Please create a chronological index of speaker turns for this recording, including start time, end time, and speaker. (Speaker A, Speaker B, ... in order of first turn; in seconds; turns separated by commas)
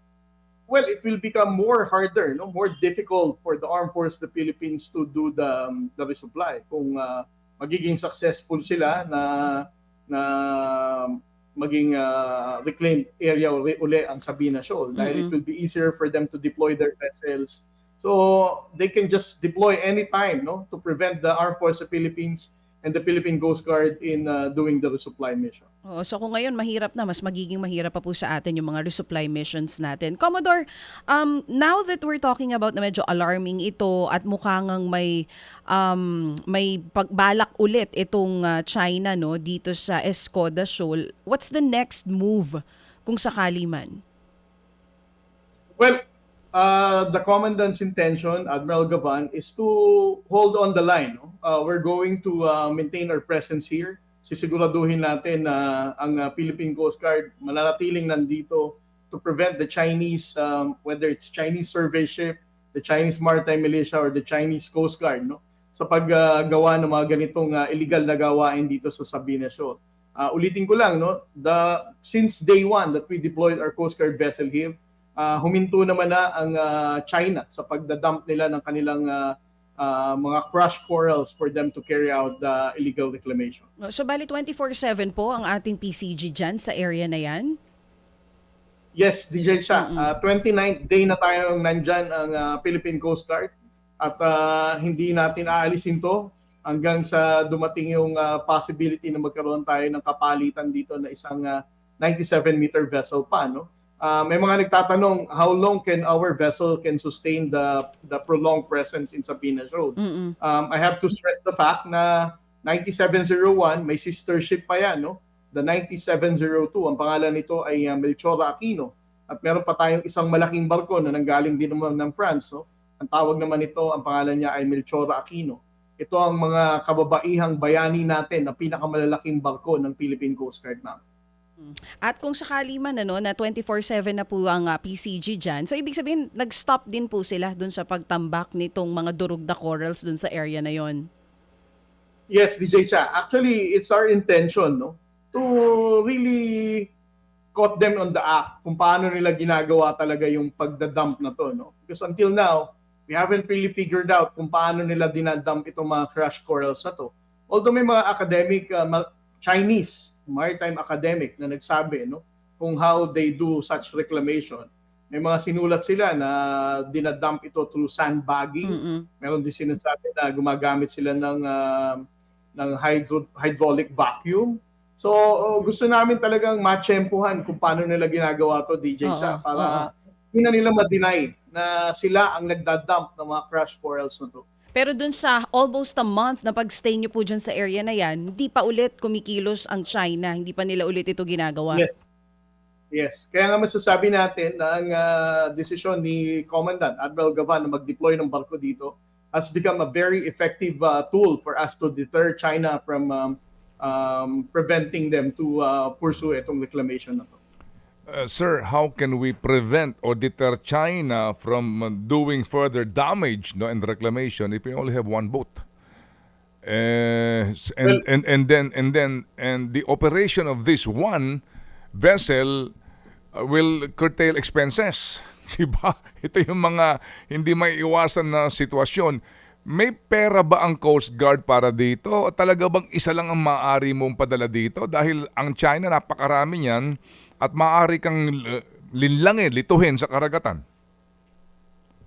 Speaker A: 0.7-25.6, Speaker B: 15.0-15.3, Speaker B: 25.9-35.1, Speaker B: 35.7-44.0, Speaker A: 46.5-83.6, Speaker B: 83.9-87.6, Speaker A: 88.9-131.0, Speaker B: 89.7-90.1, Speaker B: 110.0-110.3, Speaker B: 132.0-141.0, Speaker A: 142.3-146.9, Speaker A: 147.5-172.0, Speaker B: 168.6-169.1, Speaker A: 172.6-184.4, Speaker B: 179.0-179.9, Speaker B: 184.7-191.8, Speaker A: 191.7-192.0, Speaker A: 192.9-207.4, Speaker C: 208.1-215.6, Speaker C: 216.6-221.4, Speaker C: 222.0-222.7, Speaker C: 223.3-229.2, Speaker C: 229.7-236.8, Speaker C: 237.4-240.6